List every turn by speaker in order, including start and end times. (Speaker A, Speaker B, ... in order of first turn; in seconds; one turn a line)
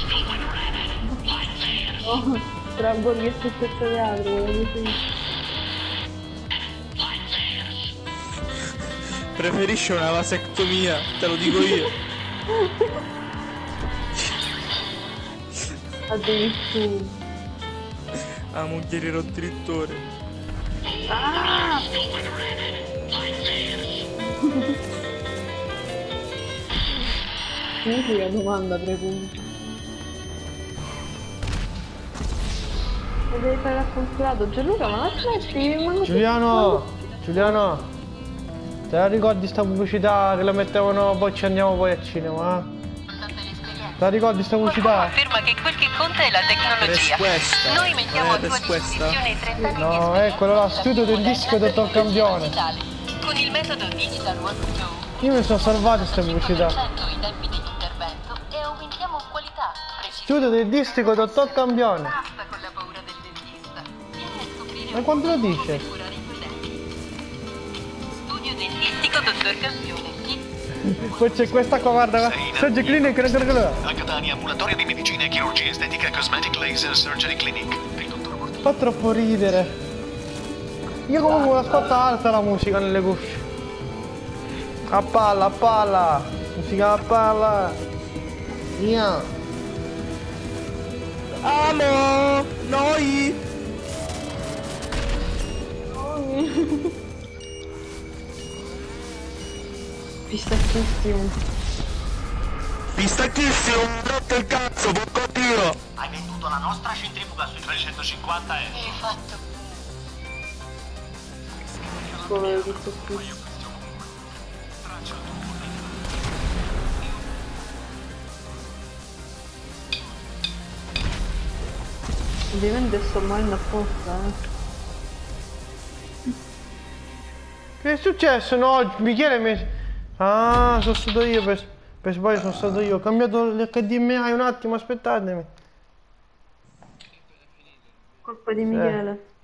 Speaker A: 2.0-5.1
Speaker B: 9.3-11.9
Speaker A: 12.5-12.9
Speaker A: 16.1-17.1
Speaker B: 18.2-20.0
Speaker A: 21.1-21.9
Speaker A: 24.2-24.8
Speaker A: 27.8-29.4
Speaker A: 33.3-37.5
Speaker C: 36.0-37.9
Speaker C: 38.9-42.7
Speaker C: 44.0-45.2
Speaker D: 44.9-49.7
Speaker B: 46.8-49.3
Speaker A: 49.6-49.8
Speaker C: 49.8-52.6
Speaker D: 52.5-54.8
Speaker C: 55.2-56.8
Speaker D: 56.8-60.2
Speaker C: 60.2-62.2
Speaker D: 62.2-63.8
Speaker C: 64.9-65.9
Speaker D: 65.9-66.5
Speaker D: 68.3-70.4
Speaker C: 70.8-73.8
Speaker E: 72.2-78.7
Speaker C: 78.6-79.8
Speaker C: 81.1-83.4
Speaker C: 84.9-87.8
Speaker C: 88.8-89.3
Speaker B: 91.3-93.4
Speaker A: 95.9-97.0
Speaker A: 100.3-101.4
Speaker B: 102.9-105.8
Speaker E: 106.0-109.0
Speaker E: 111.7-114.1
Speaker A: 112.2-113.3
Speaker E: 114.8-115.9
Speaker A: 122.5-124.4
Speaker C: 127.8-135.5
Speaker A: 138.2-139.2
Speaker C: 138.7-139.0